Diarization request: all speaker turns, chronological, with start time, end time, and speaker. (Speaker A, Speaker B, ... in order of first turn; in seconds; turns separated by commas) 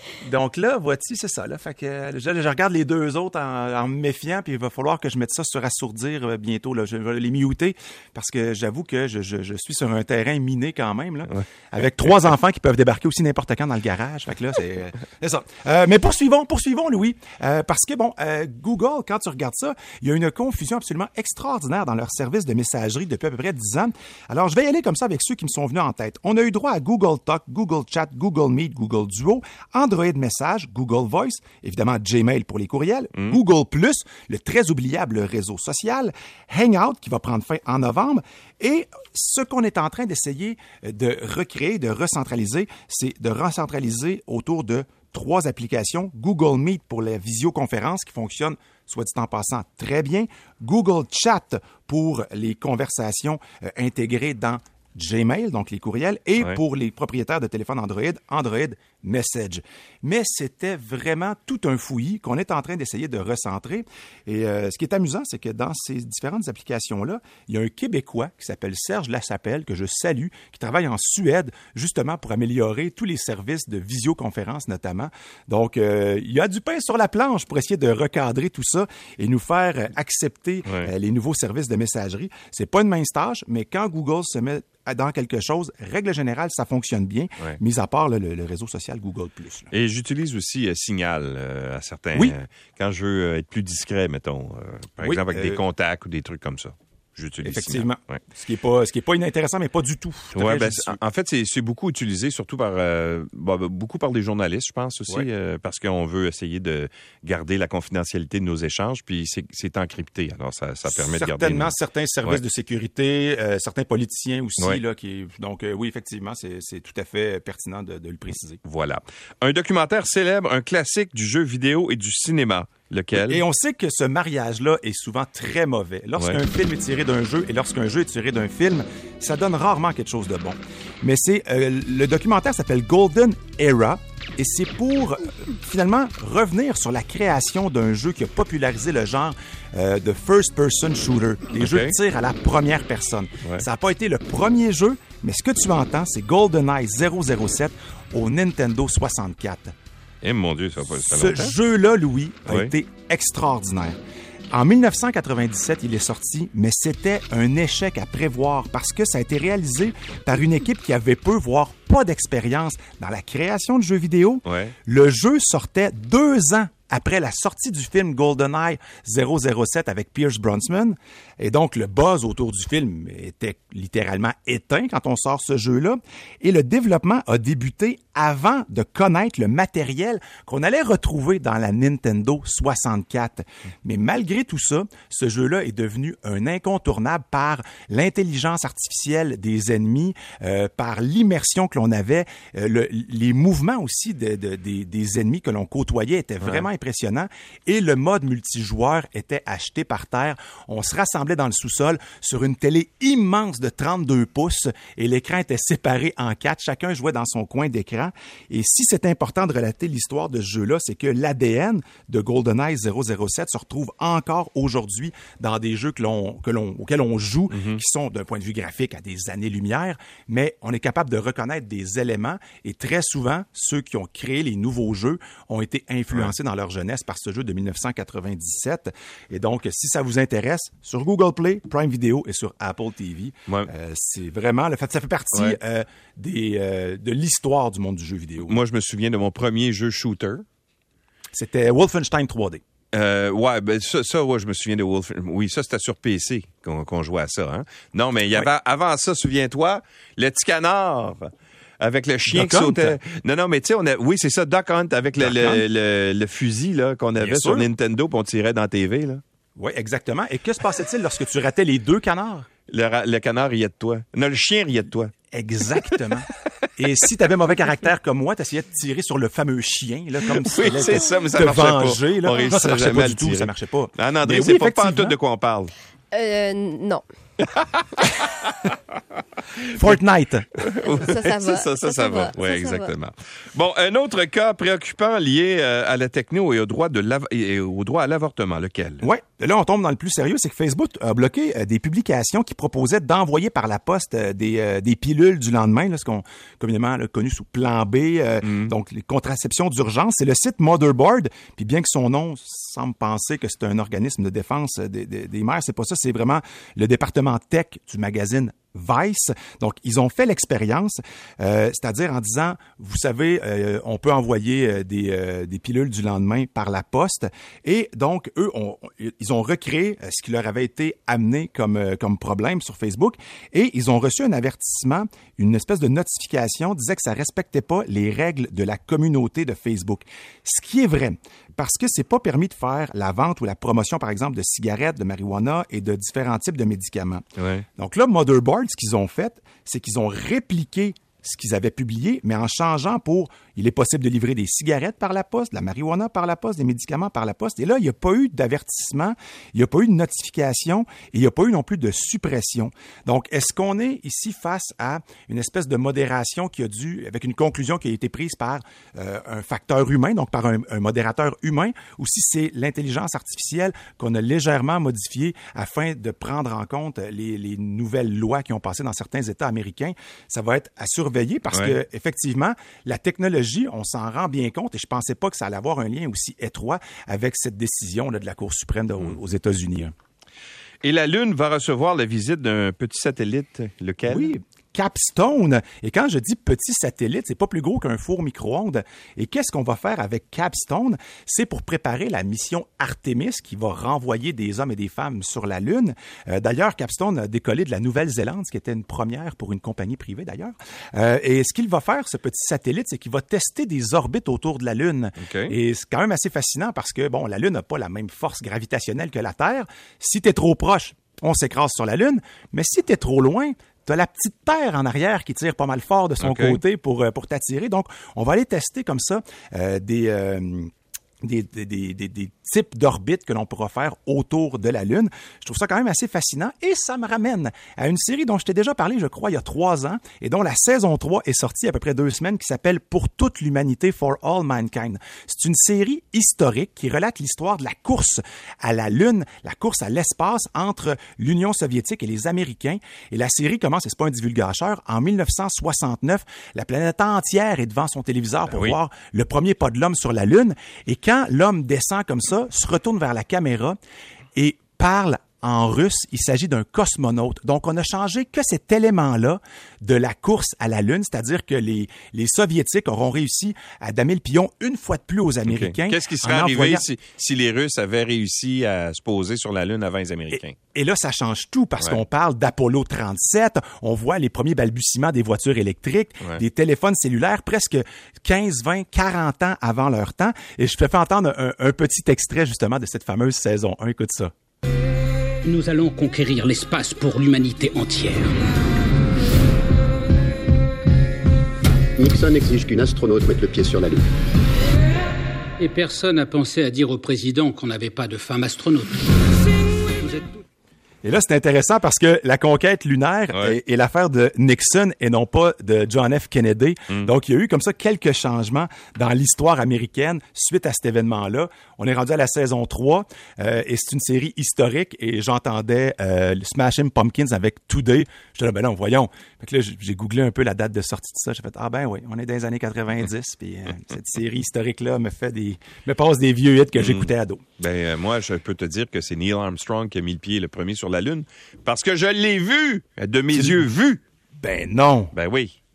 Speaker A: 0.2-89.7, Speaker B: 89.7-98.2, Speaker A: 95.0-95.6, Speaker A: 97.4-101.0, Speaker B: 100.3-111.7, Speaker A: 110.9-118.6, Speaker B: 118.7-123.4, Speaker A: 123.2-149.7, Speaker B: 141.6-141.9, Speaker B: 150.2-151.6, Speaker A: 150.9-154.0, Speaker B: 152.5-152.7, Speaker A: 154.5-238.6, Speaker B: 164.5-164.7, Speaker B: 217.5-217.8, Speaker B: 238.4-240.4, Speaker A: 241.3-242.6, Speaker B: 242.9-259.2, Speaker A: 252.3-253.0, Speaker A: 255.2-255.6, Speaker A: 257.2-257.7, Speaker A: 259.6-262.5, Speaker B: 262.7-265.1, Speaker A: 265.3-275.2, Speaker B: 270.4-275.7, Speaker C: 276.1-277.1, Speaker B: 277.4-278.8, Speaker A: 279.7-280.6, Speaker B: 280.6-289.1, Speaker C: 280.8-282.9, Speaker A: 289.0-337.2, Speaker B: 298.4-298.7, Speaker B: 337.4-337.7, Speaker A: 337.8-379.9, Speaker B: 371.5-371.8, Speaker B: 380.8-384.3, Speaker A: 384.1-420.7, Speaker B: 405.2-405.5, Speaker B: 416.2-416.6, Speaker A: 421.2-453.8, Speaker B: 448.5-448.8, Speaker A: 454.4-466.9, Speaker B: 465.5-470.6, Speaker A: 470.3-484.3, Speaker D: 485.4-488.4, Speaker E: 492.0-494.1, Speaker D: 495.6-499.3, Speaker D: 499.9-500.4, Speaker A: 501.0-527.4, Speaker B: 526.8-534.0, Speaker A: 533.3-533.7, Speaker A: 534.4-535.1, Speaker B: 535.1-535.6